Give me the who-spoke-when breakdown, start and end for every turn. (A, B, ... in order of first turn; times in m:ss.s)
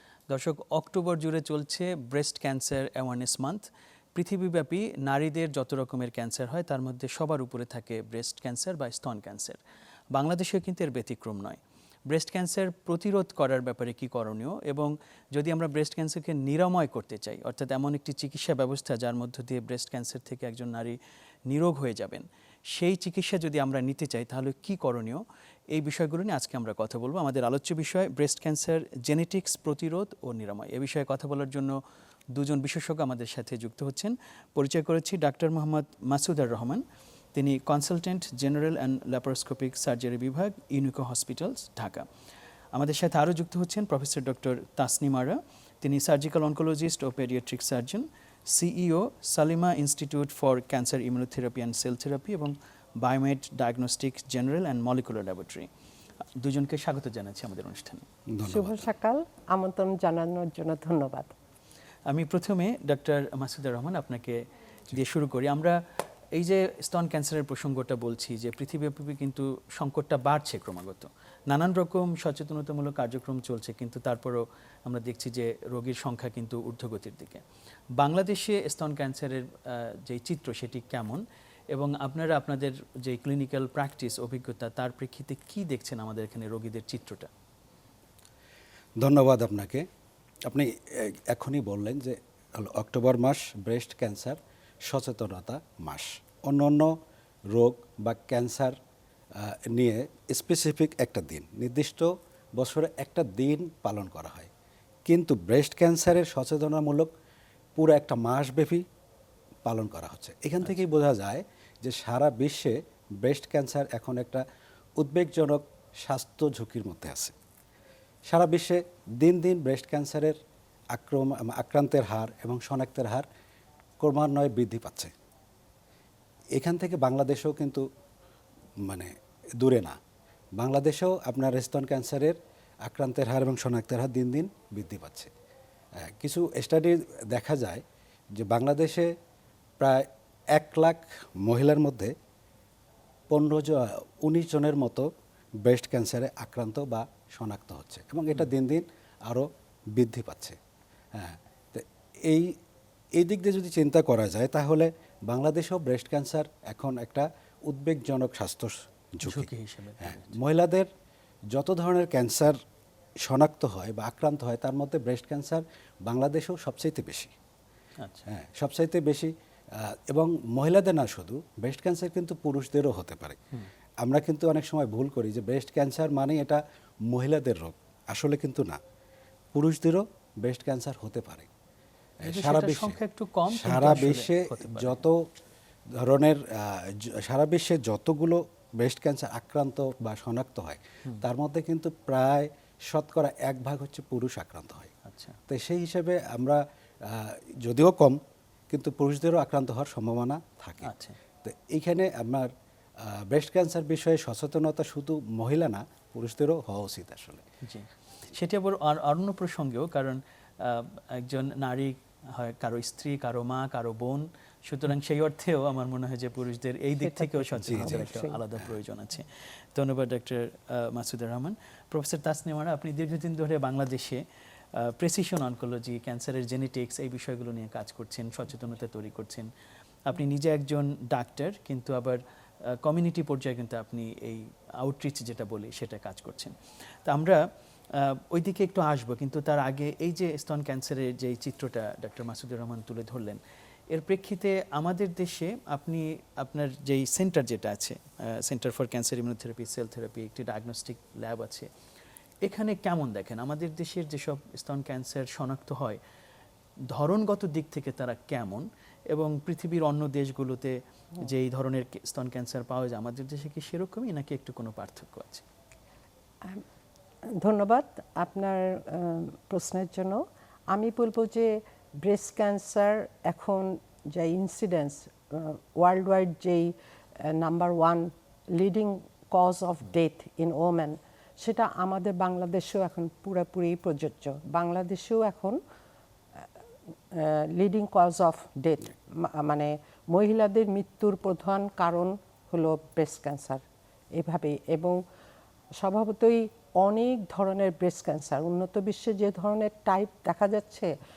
0:00.3-0:09.6 A
0:10.2-0:21.0 A
0:21.5-0:25.2 A
0:25.7-0:31.8 A
0:32.3-0:36.8 A
0:37.4-0:42.1 A
0:42.7-0:55.7 A
0:56.4-0:58.0 A
0:58.3-0:58.9 B
0:58.4-1:01.3 C
1:02.1-1:05.8 A
1:06.3-1:17.4 A
1:18.0-1:27.3 A
1:29.0-1:29.9 B
1:30.5-1:37.0 B
1:37.5-1:38.8 B
1:39.3-1:44.5 B
1:45.1-1:47.1 B
1:47.8-1:48.8 B
1:49.7-1:54.4 B
1:55.0-1:57.4 B
1:58.3-2:00.4 B
2:00.9-2:03.3 B
2:04.0-2:05.1 B
2:06.6-2:07.9 B
2:08.8-2:10.0 B
2:10.6-2:15.3 B
2:16.0-2:17.8 B
2:18.4-2:19.1 B
2:19.8-2:22.1 B
2:23.3-2:25.1 B
2:25.6-2:30.6 B
2:31.1-2:32.6 B
2:33.2-2:40.9 B
2:39.2-2:40.4 A
2:41.5-2:42.6 B
2:43.2-2:47.3 B
2:48.0-2:48.3 A
2:48.3-2:53.4 B
2:54.0-2:58.8 B
2:59.5-3:01.5 B
3:02.2-3:03.0 B
3:02.3-3:05.0 A
3:03.5-3:05.3 B
3:05.9-3:14.9 B
3:15.1-3:15.4 A
3:15.5-3:18.2 B
3:18.7-3:20.9 B
3:20.8-3:21.2 A
3:21.4-3:27.4 B
3:27.6-3:44.2 A
3:37.0-3:38.4 C
3:37.7-3:38.0 B
3:44.7-3:49.5 A
3:50.1-3:56.6 A
3:57.1-3:57.4 A
3:57.9-4:03.4 A
4:03.9-4:11.7 A
4:12.4-4:16.0 A
4:16.9-4:25.4 A
4:27.4-4:45.6 C
4:47.1-4:53.6 C
4:54.2-4:55.0 C
4:55.8-5:00.9 C